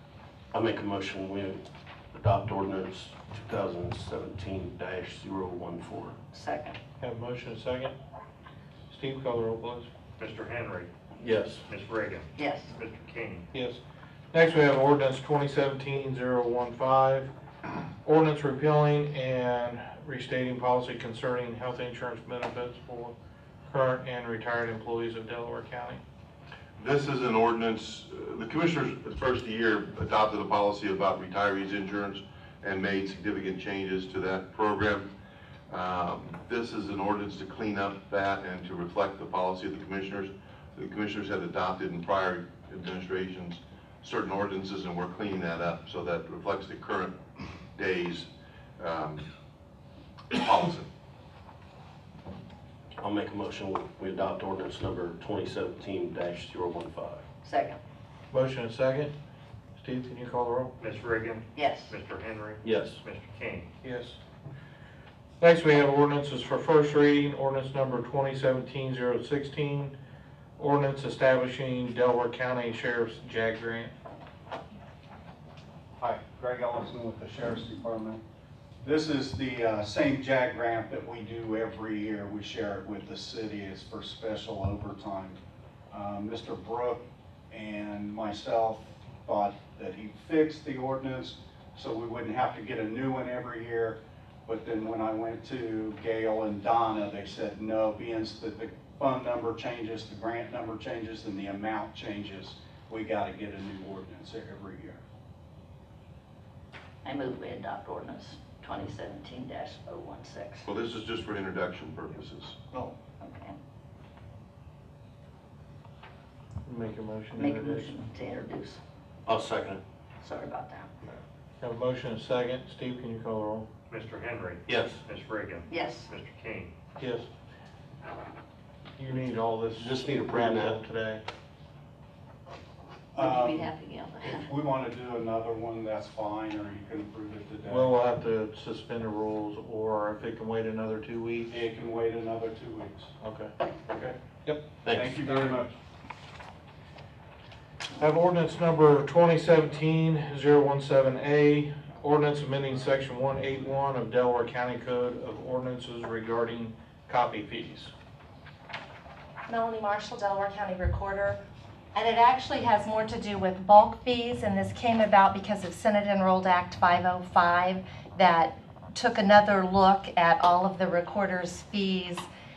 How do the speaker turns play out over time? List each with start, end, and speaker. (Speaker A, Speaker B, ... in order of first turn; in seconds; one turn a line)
Speaker A: 0.5-6.2
Speaker B: 6.3-6.7
Speaker C: 7.0-7.9
Speaker C: 8.9-9.9
Speaker D: 10.2-10.9
Speaker A: 11.2-11.6
Speaker D: 11.7-13.4
Speaker C: 13.5-13.8
Speaker C: 14.3-17.3
Speaker C: 18.0-23.1
Speaker C: 23.7-26.0
Speaker E: 26.8-35.1
Speaker E: 35.7-49.3
Speaker E: 50.3-50.9
Speaker A: 53.0-57.2
Speaker B: 57.4-57.8
Speaker C: 58.3-59.1
Speaker C: 59.8-60.7
Speaker D: 60.8-63.7
Speaker F: 61.6-62.0
Speaker A: 62.6-63.0
Speaker C: 63.8-64.2
Speaker C: 65.4-69.9
Speaker C: 70.6-73.9
Speaker G: 76.0-78.2
Speaker G: 78.8-85.4
Speaker G: 85.9-105.0
Speaker B: 107.0-110.6
Speaker E: 110.6-112.6
Speaker B: 112.7-113.5
Speaker C: 116.6-118.0
Speaker B: 117.4-118.8
Speaker F: 117.9-118.5
Speaker A: 119.2-119.8
Speaker B: 120.2-120.8
Speaker C: 121.6-123.7
Speaker D: 123.9-126.7
Speaker A: 124.7-125.0
Speaker B: 125.7-126.1
Speaker C: 127.0-127.3
Speaker C: 129.0-131.2
Speaker A: 129.8-130.8
Speaker G: 133.1-133.6
Speaker F: 133.2-134.3
Speaker B: 133.2-134.5
Speaker G: 134.2-137.9
Speaker C: 137.7-141.5
Speaker G: 141.5-143.1
Speaker C: 143.2-143.5
Speaker C: 144.4-145.6
Speaker A: 144.8-145.3
Speaker G: 144.9-145.8
Speaker C: 148.0-157.9
Speaker F: 159.5-161.4
Speaker F: 161.9-172.3